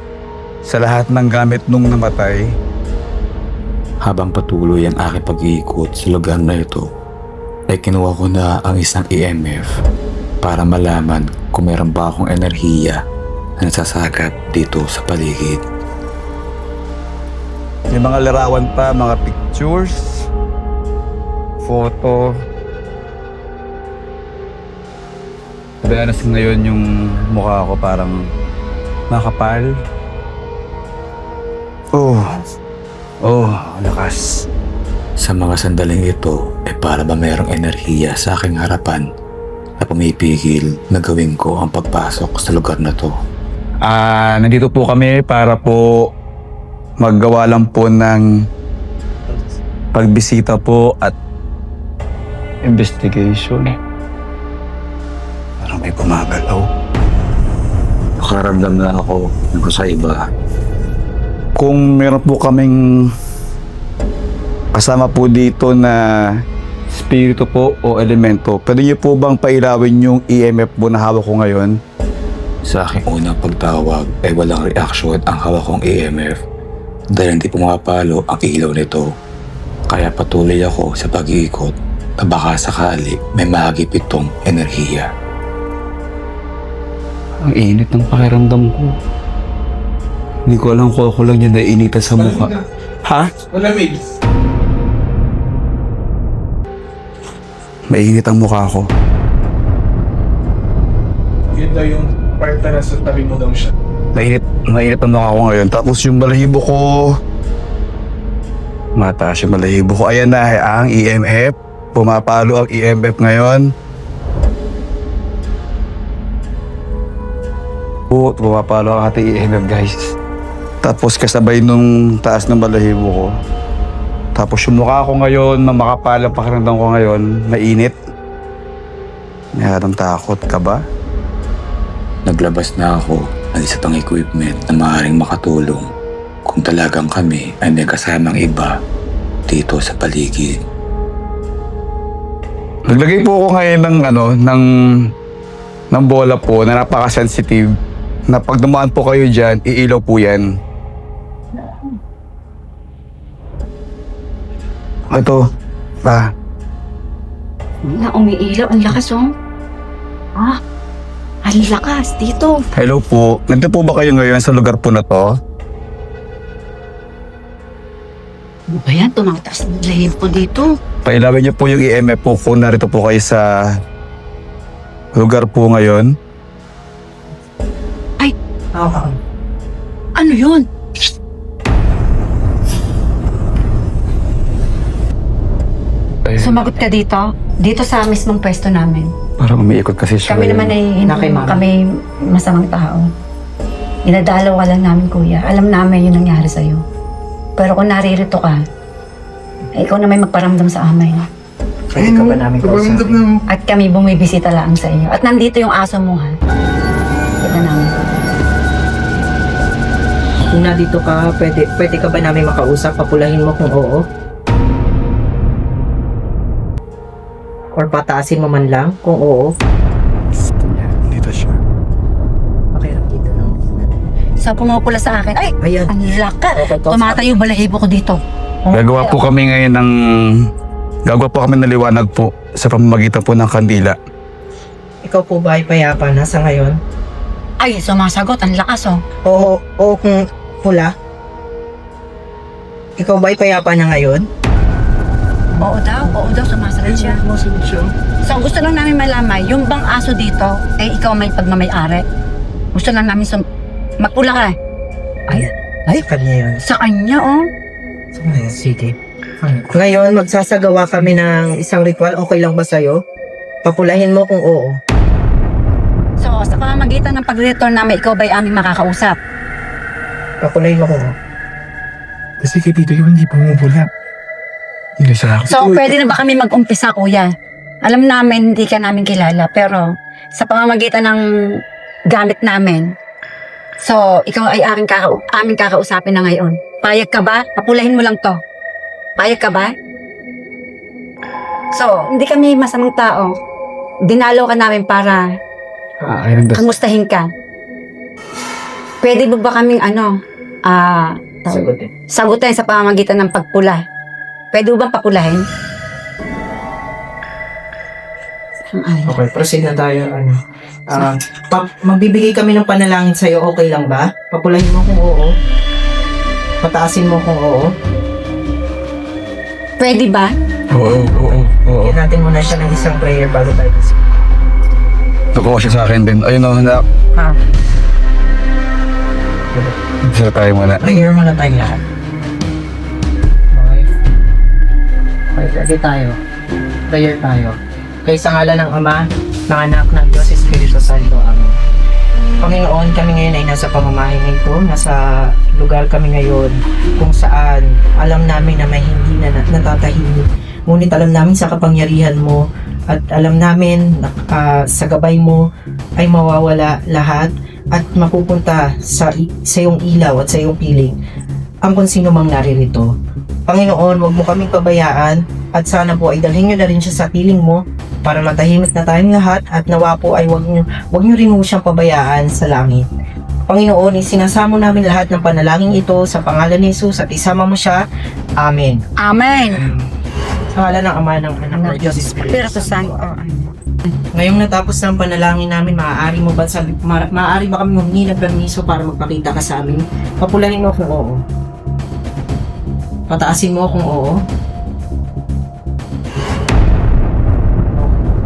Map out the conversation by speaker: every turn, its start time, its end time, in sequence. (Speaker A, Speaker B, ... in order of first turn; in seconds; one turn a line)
Speaker A: 0.7-2.5
Speaker B: 4.0-6.8
Speaker B: 7.7-9.7
Speaker B: 10.4-13.0
Speaker B: 13.6-15.6
Speaker A: 17.9-20.3
Speaker A: 21.6-22.3
Speaker A: 25.8-28.2
Speaker A: 29.1-29.7
Speaker A: 31.9-32.3
Speaker A: 33.2-34.2
Speaker B: 35.2-39.0
Speaker B: 39.8-43.1
Speaker A: 43.8-46.1
Speaker A: 47.0-48.2
Speaker A: 49.9-51.2
Speaker A: 52.6-53.8
Speaker A: 55.8-56.6
Speaker B: 58.2-60.2
Speaker A: 61.6-62.8
Speaker A: 64.8-66.0
Speaker A: 66.9-71.8
Speaker B: 72.7-76.3
Speaker B: 77.1-79.0
Speaker B: 79.9-85.1
Speaker A: 87.5-89.0
Speaker A: 90.5-93.3
Speaker C: 92.2-92.6
Speaker C: 93.5-94.0
Speaker A: 97.9-98.9
Speaker C: 101.5-103.7
Speaker A: 104.2-107.2
Speaker A: 109.0-113.7
Speaker A: 118.1-120.1
Speaker A: 120.8-123.3
Speaker A: 124.3-128.0
Speaker A: 129.6-130.8
Speaker B: 132.3-135.9
Speaker B: 136.5-138.7
Speaker B: 139.5-140.5
Speaker A: 142.9-144.7
Speaker A: 145.9-147.7
Speaker A: 148.3-150.4
Speaker D: 151.6-152.0
Speaker A: 155.1-155.4
Speaker D: 157.8-159.3
Speaker D: 161.4-162.6
Speaker A: 162.7-165.3
Speaker D: 168.7-170.7
Speaker A: 171.1-173.5
Speaker A: 175.1-176.1
Speaker E: 178.7-179.2
Speaker D: 180.2-180.7
Speaker A: 186.3-186.6
Speaker D: 186.4-189.1
Speaker A: 189.4-190.7
Speaker D: 190.3-193.1
Speaker E: 191.1-191.6
Speaker D: 194.1-196.8
Speaker D: 197.6-198.6
Speaker D: 199.8-201.3
Speaker E: 201.9-203.3
Speaker D: 203.5-206.3
Speaker D: 207.4-207.9
Speaker E: 210.5-214.0
Speaker E: 217.8-219.5
Speaker A: 220.4-221.6
Speaker E: 222.7-223.8
Speaker D: 224.4-228.2
Speaker E: 225.6-225.9
Speaker E: 226.6-227.3
Speaker A: 228.7-230.3
Speaker A: 231.1-234.0
Speaker E: 235.0-236.8
Speaker D: 237.6-239.0
Speaker E: 239.2-240.9
Speaker E: 243.0-244.2
Speaker D: 245.6-247.2
Speaker C: 247.3-247.9
Speaker D: 248.2-252.0
Speaker D: 252.7-253.4
Speaker D: 254.0-254.6
Speaker E: 255.3-256.6
Speaker D: 256.6-257.4
Speaker E: 258.2-263.0
Speaker E: 263.6-264.8
Speaker D: 266.2-269.2
Speaker E: 270.4-271.1
Speaker C: 272.4-273.9
Speaker A: 275.0-275.6
Speaker D: 275.5-277.3
Speaker D: 277.8-281.2
Speaker D: 282.1-282.9
Speaker D: 283.8-288.4
Speaker D: 289.2-289.7
Speaker D: 291.7-293.3
Speaker D: 294.1-295.2
Speaker A: 296.0-296.7
Speaker D: 296.5-297.3
Speaker D: 299.0-300.1
Speaker D: 300.7-303.8
Speaker E: 301.5-301.9
Speaker D: 304.5-305.4
Speaker D: 308.7-309.2
Speaker E: 309.1-310.4
Speaker E: 310.9-315.3
Speaker E: 316.6-317.7
Speaker D: 319.8-320.3
Speaker A: 320.7-322.0
Speaker E: 321.8-324.0
Speaker A: 325.3-326.8
Speaker A: 330.1-330.9
Speaker E: 330.8-331.8
Speaker E: 333.5-333.9
Speaker E: 335.3-336.2
Speaker E: 336.9-341.6
Speaker E: 342.4-355.4
Speaker E: 356.0-361.0
Speaker E: 361.7-362.9
Speaker E: 363.5-372.9
Speaker E: 373.5-377.8
Speaker E: 378.4-378.8
Speaker D: 379.0-379.7
Speaker E: 380.5-382.9
Speaker D: 381.5-383.9
Speaker E: 384.1-391.2
Speaker E: 393.1-394.1